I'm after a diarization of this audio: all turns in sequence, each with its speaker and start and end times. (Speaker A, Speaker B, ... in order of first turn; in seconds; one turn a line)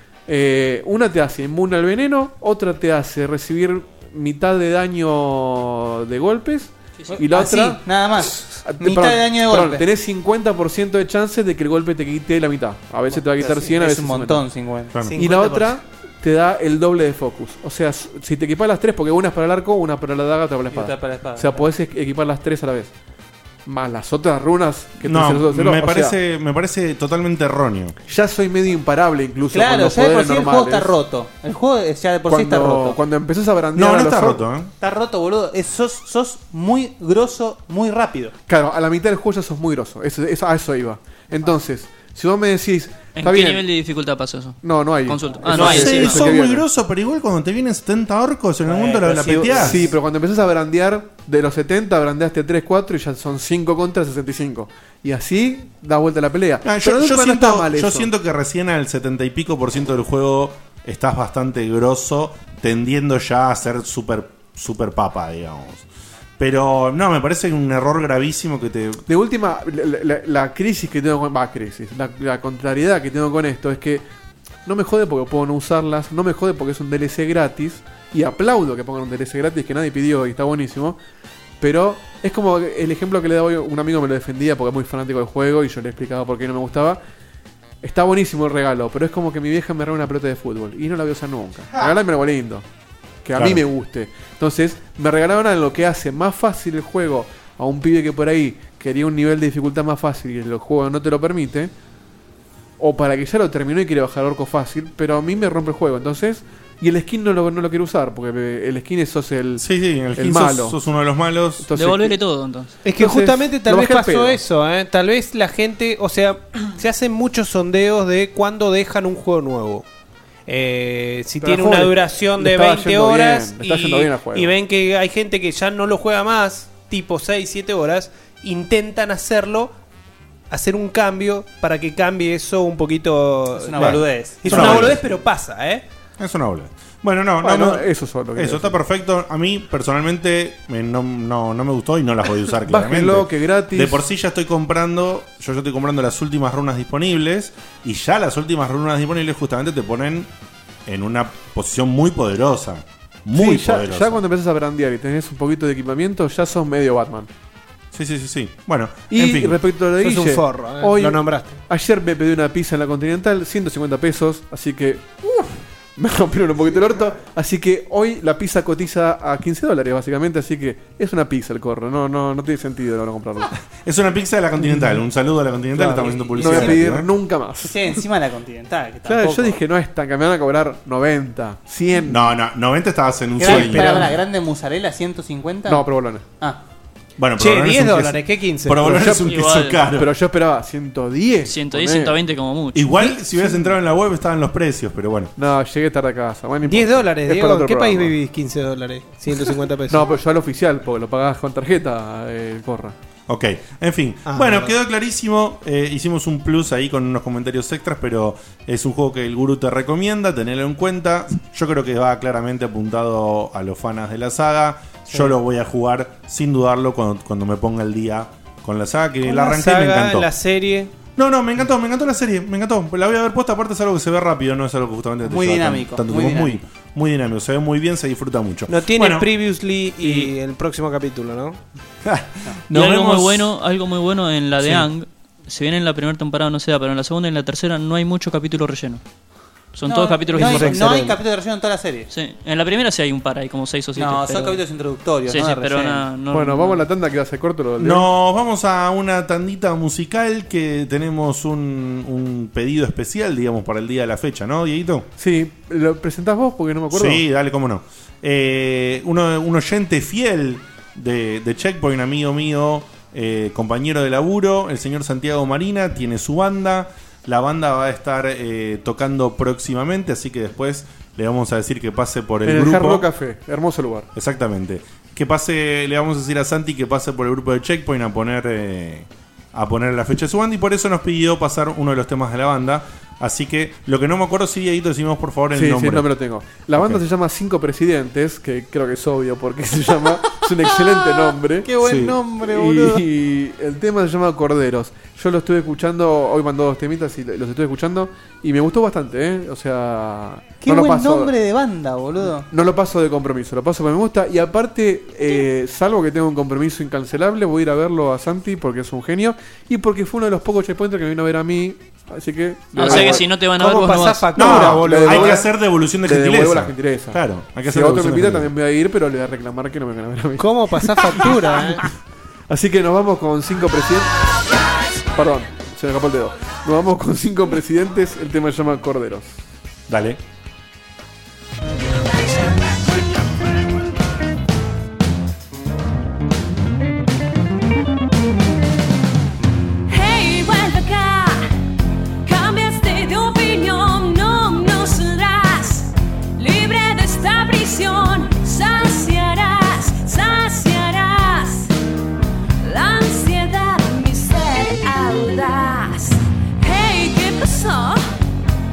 Speaker A: 0.3-7.8
Speaker B: 7.1-9.8
Speaker A: 8.6-14.4
Speaker B: 13.1-15.4
Speaker C: 15.2-15.7
Speaker A: 15.2-22.9
Speaker B: 20.7-21.6
Speaker A: 23.6-26.1
Speaker D: 25.0-27.9
Speaker A: 28.1-30.9
Speaker B: 29.5-33.0
Speaker A: 32.3-34.4
Speaker D: 33.7-34.7
Speaker B: 34.8-38.3
Speaker A: 38.5-43.6
Speaker E: 43.1-46.2
Speaker A: 44.6-46.6
Speaker D: 45.5-49.8
Speaker B: 48.7-49.7
Speaker C: 49.0-49.7
Speaker A: 49.6-58.1
Speaker D: 56.6-65.8
Speaker D: 66.4-69.0
Speaker A: 69.1-74.0
Speaker A: 74.7-81.0
Speaker A: 81.6-87.0
Speaker A: 87.8-92.6
Speaker A: 93.2-101.7
Speaker D: 93.3-93.6
Speaker A: 102.8-109.6
Speaker D: 109.6-111.7
Speaker A: 110.1-110.8
Speaker A: 111.6-112.1
Speaker E: 111.8-112.7
Speaker C: 112.8-119.8
Speaker A: 113.0-114.4
Speaker C: 120.5-129.7
Speaker A: 121.4-124.5
Speaker C: 130.5-135.8
Speaker B: 133.6-135.0
Speaker D: 133.8-135.0
Speaker D: 136.2-150.3
Speaker A: 137.4-138.8
Speaker A: 142.7-144.0
Speaker D: 150.8-154.2
Speaker A: 153.3-157.3
Speaker D: 157.9-159.6
Speaker A: 159.1-173.5
Speaker C: 160.0-161.6
Speaker D: 173.8-177.1
Speaker A: 175.8-177.7
Speaker B: 175.9-176.8
Speaker B: 177.6-179.6
Speaker A: 179.1-182.2
Speaker D: 182.1-184.1
Speaker B: 183.4-185.9
Speaker C: 183.5-184.0
Speaker A: 185.7-186.2
Speaker D: 187.2-190.1
Speaker C: 187.4-189.0
Speaker A: 188.8-189.2
Speaker E: 189.2-189.8
Speaker A: 189.9-192.2
Speaker E: 191.5-192.9
Speaker D: 192.7-195.3
Speaker A: 195.4-198.1
Speaker C: 196.6-200.1
Speaker A: 199.9-202.9
Speaker D: 203.3-220.3
Speaker C: 204.2-204.7
Speaker C: 219.2-220.9
Speaker D: 221.2-229.3
Speaker B: 225.2-226.6
Speaker C: 228.7-231.6
Speaker D: 232.0-233.5
Speaker E: 232.7-239.0
Speaker D: 234.6-234.9
Speaker E: 239.7-241.0
Speaker B: 239.9-242.1
Speaker E: 242.1-244.6
Speaker B: 243.9-246.0
Speaker E: 245.3-246.8
Speaker A: 246.3-248.1
Speaker D: 247.8-255.1
Speaker A: 255.2-257.2
Speaker D: 256.9-273.1
Speaker A: 272.4-274.1
Speaker D: 274.1-286.1
Speaker A: 285.5-291.7
Speaker D: 286.8-287.0
Speaker B: 291.2-293.0
Speaker D: 291.8-292.2
Speaker A: 292.4-301.3
Speaker B: 300.6-302.5
Speaker A: 302.5-313.2
Speaker E: 312.7-314.5
Speaker C: 312.9-315.4
Speaker D: 314.3-318.5
Speaker A: 314.5-315.5
Speaker A: 316.0-321.3
Speaker C: 320.4-321.8
Speaker A: 322.5-324.1
Speaker A: 325.1-329.4
Speaker D: 329.9-330.2
Speaker F: 339.9-341.5
Speaker F: 342.2-351.7
Speaker F: 352.6-358.1